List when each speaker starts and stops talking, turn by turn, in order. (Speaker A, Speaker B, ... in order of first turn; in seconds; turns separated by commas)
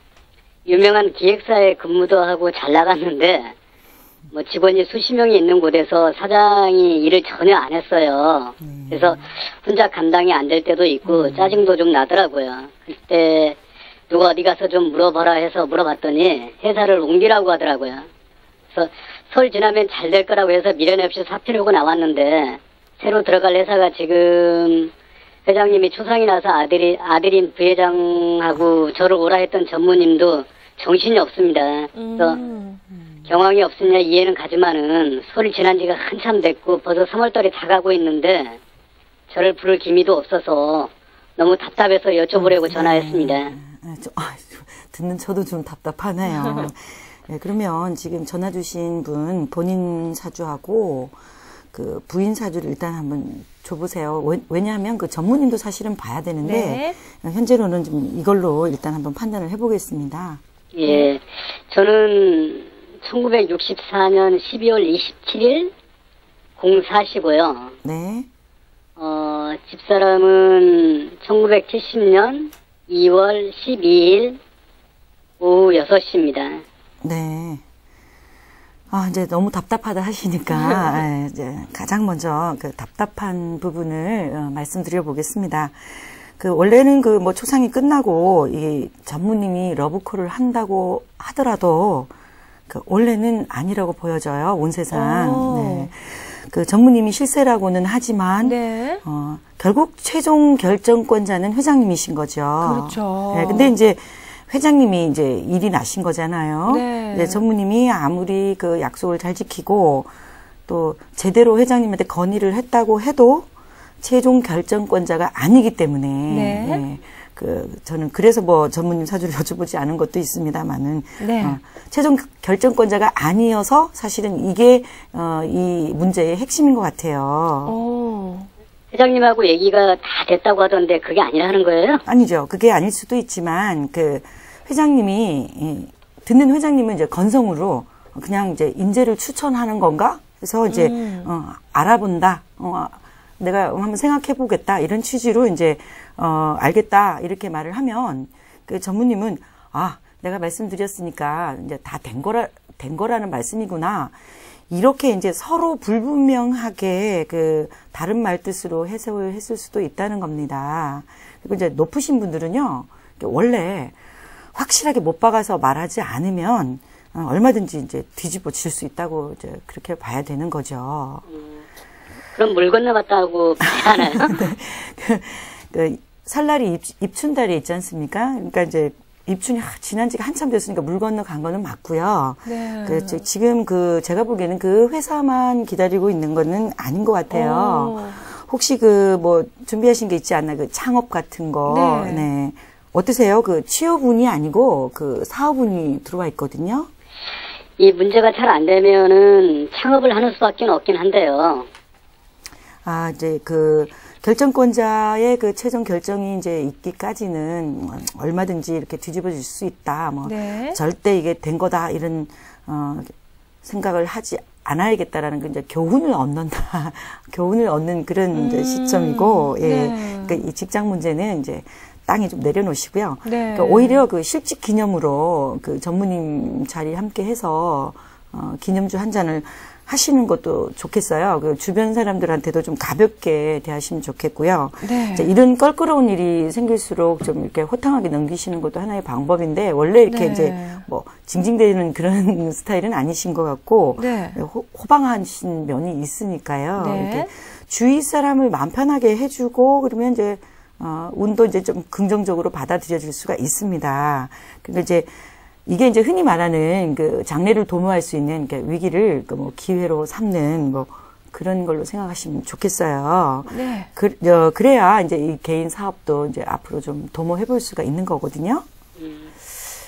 Speaker A: 0.7-3.5, Speaker A: 4.3-13.6, Speaker B: 8.6-9.3, Speaker B: 11.1-11.6, Speaker A: 14.1-18.1, Speaker A: 18.7-24.9, Speaker A: 25.5-32.4, Speaker C: 31.9-32.8, Speaker A: 33.3-38.6, Speaker A: 39.3-43.5, Speaker B: 42.3-51.2, Speaker B: 51.7-60.4, Speaker C: 56.4-57.0, Speaker A: 60.7-65.7, Speaker A: 66.6-67.7, Speaker B: 67.8-68.3, Speaker A: 69.0-74.4, Speaker A: 75.4-76.6, Speaker B: 77.0-77.6, Speaker B: 78.9-92.1, Speaker B: 92.7-110.1, Speaker C: 94.9-95.9, Speaker C: 98.4-99.0, Speaker C: 102.6-103.7, Speaker C: 106.7-107.5, Speaker B: 110.7-113.5, Speaker B: 114.0-127.8, Speaker C: 116.3-116.8, Speaker C: 121.2-121.6, Speaker C: 127.7-128.5, Speaker A: 128.9-132.0, Speaker B: 132.1-154.2, Speaker C: 140.7-141.3, Speaker B: 154.7-164.0, Speaker B: 164.6-171.3, Speaker A: 171.3-171.6, Speaker A: 172.3-174.3, Speaker B: 174.2-196.9, Speaker C: 182.4-183.2, Speaker C: 187.3-188.2, Speaker C: 191.7-192.3, Speaker A: 197.8-201.7, Speaker B: 202.8-213.1, Speaker C: 210.2-210.8, Speaker B: 213.6-255.1, Speaker C: 218.3-220.4, Speaker C: 223.2-224.0, Speaker C: 234.8-235.3, Speaker C: 240.1-240.8, Speaker C: 244.0-244.4, Speaker C: 246.8-247.3, Speaker B: 255.7-268.6, Speaker C: 263.5-263.9, Speaker A: 269.0-269.3